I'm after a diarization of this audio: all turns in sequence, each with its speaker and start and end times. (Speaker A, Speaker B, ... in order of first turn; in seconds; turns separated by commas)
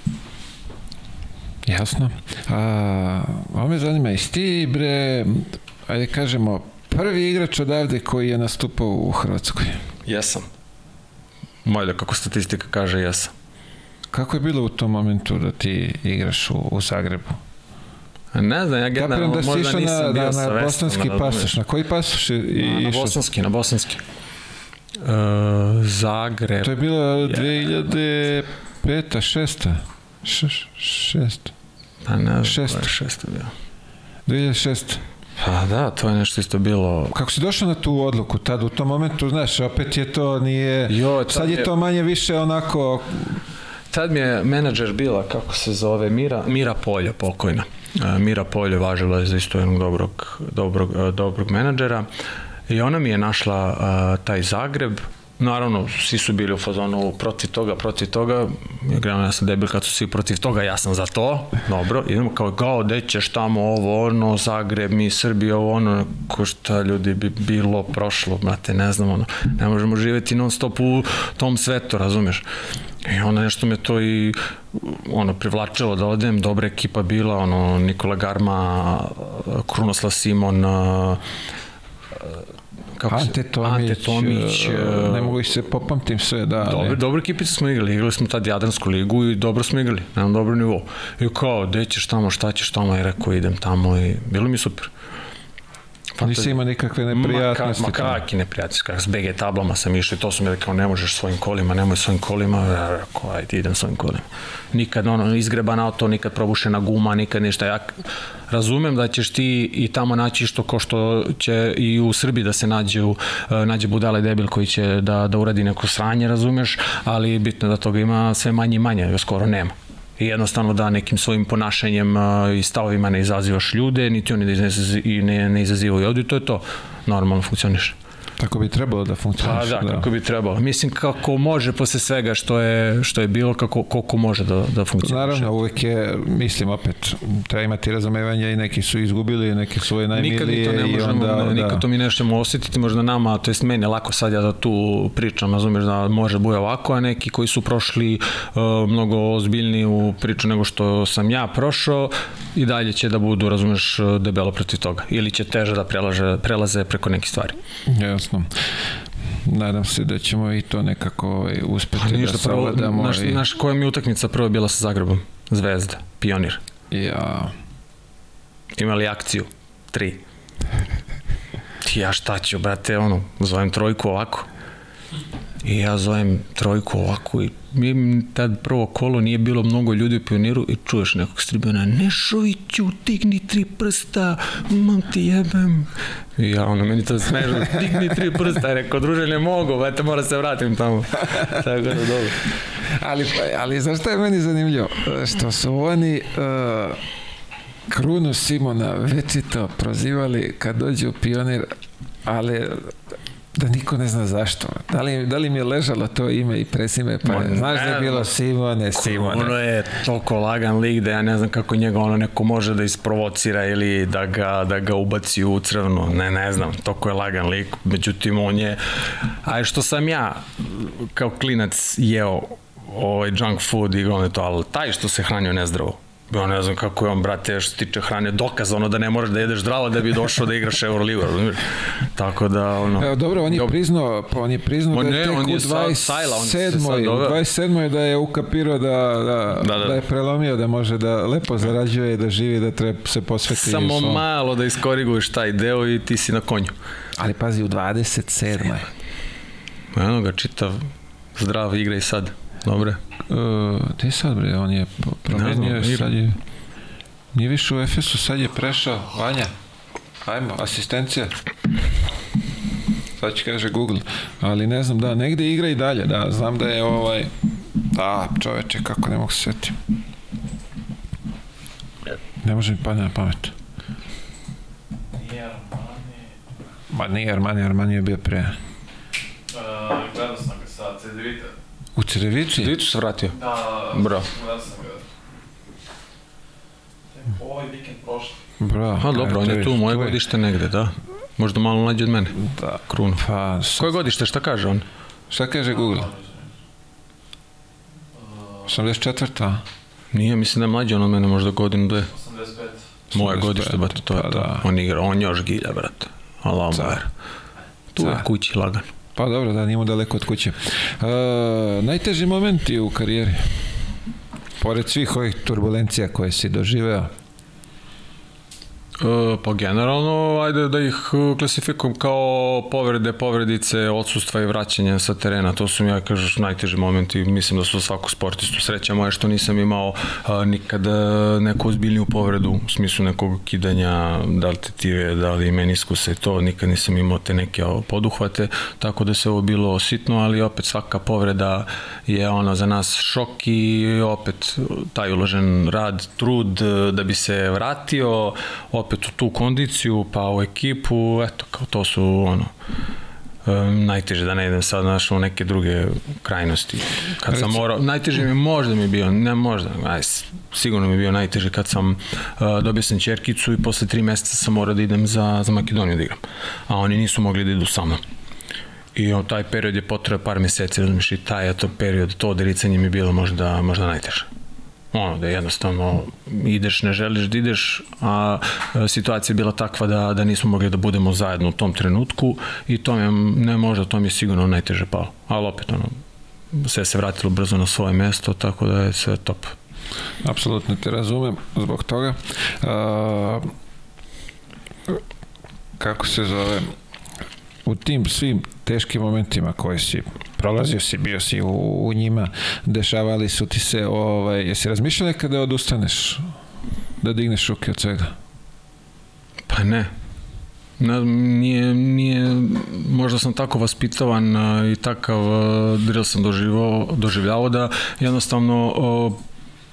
Speaker A: 1.6-9.8, Speaker B: 10.0-10.5, Speaker B: 11.6-13.3, Speaker A: 14.1-17.4, Speaker B: 18.3-21.6, Speaker A: 18.9-23.2, Speaker B: 22.6-24.0, Speaker B: 25.0-26.7, Speaker A: 26.6-31.5, Speaker B: 32.0-33.5, Speaker A: 32.4-32.9, Speaker A: 34.2-35.0, Speaker B: 35.4-37.2, Speaker A: 37.1-43.4, Speaker B: 40.9-41.7, Speaker B: 43.9-52.0, Speaker B: 52.7-72.4, Speaker B: 73.0-81.2, Speaker B: 83.0-85.4, Speaker A: 83.1-87.0, Speaker B: 86.6-94.9, Speaker B: 96.1-96.5, Speaker A: 96.2-98.2, Speaker B: 97.1-128.0, Speaker A: 128.4-130.1, Speaker B: 129.4-135.5, Speaker A: 135.0-141.8, Speaker B: 140.1-157.6, Speaker A: 157.9-158.7, Speaker A: 159.4-163.4, Speaker B: 162.0-166.6, Speaker A: 166.9-167.5, Speaker B: 168.8-170.2, Speaker B: 171.8-174.5, Speaker B: 175.6-192.4, Speaker A: 192.8-197.0, Speaker A: 197.9-201.7, Speaker A: 202.2-203.0, Speaker A: 203.5-209.5, Speaker B: 207.2-208.3, Speaker B: 208.9-233.7, Speaker A: 232.9-244.2, Speaker B: 234.9-237.4, Speaker B: 239.6-240.0, Speaker B: 243.5-246.7, Speaker A: 247.2-248.9, Speaker B: 249.9-253.0, Speaker A: 253.2-256.4, Speaker B: 255.3-256.1, Speaker A: 257.3-259.5, Speaker A: 260.2-261.4, Speaker A: 263.2-269.8, Speaker A: 272.4-273.5, Speaker C: 275.1-276.3, Speaker A: 276.9-278.6, Speaker C: 279.5-281.5, Speaker A: 281.9-282.7, Speaker B: 282.5-283.4, Speaker C: 283.3-285.0, Speaker B: 283.9-284.3, Speaker C: 287.1-288.4, Speaker A: 288.6-290.2, Speaker B: 289.0-292.4, Speaker A: 292.6-294.0, Speaker B: 292.9-293.2, Speaker B: 293.8-294.8, Speaker A: 295.3-296.1, Speaker C: 295.9-296.4, Speaker C: 298.1-298.7, Speaker A: 298.6-299.6, Speaker B: 300.1-302.1, Speaker C: 302.1-303.0, Speaker B: 303.1-307.1, Speaker A: 303.1-304.6, Speaker B: 307.9-308.9, Speaker A: 308.0-308.2, Speaker A: 309.1-313.5, Speaker A: 314.6-317.1, Speaker B: 319.0-352.5, Speaker B: 353.4-368.0, Speaker B: 368.9-374.3, Speaker B: 374.9-386.0, Speaker B: 386.5-389.6, Speaker A: 390.2-393.5, Speaker A: 395.8-396.7, Speaker A: 397.6-406.3, Speaker A: 407.0-408.1, Speaker B: 409.5-409.9, Speaker B: 410.8-419.2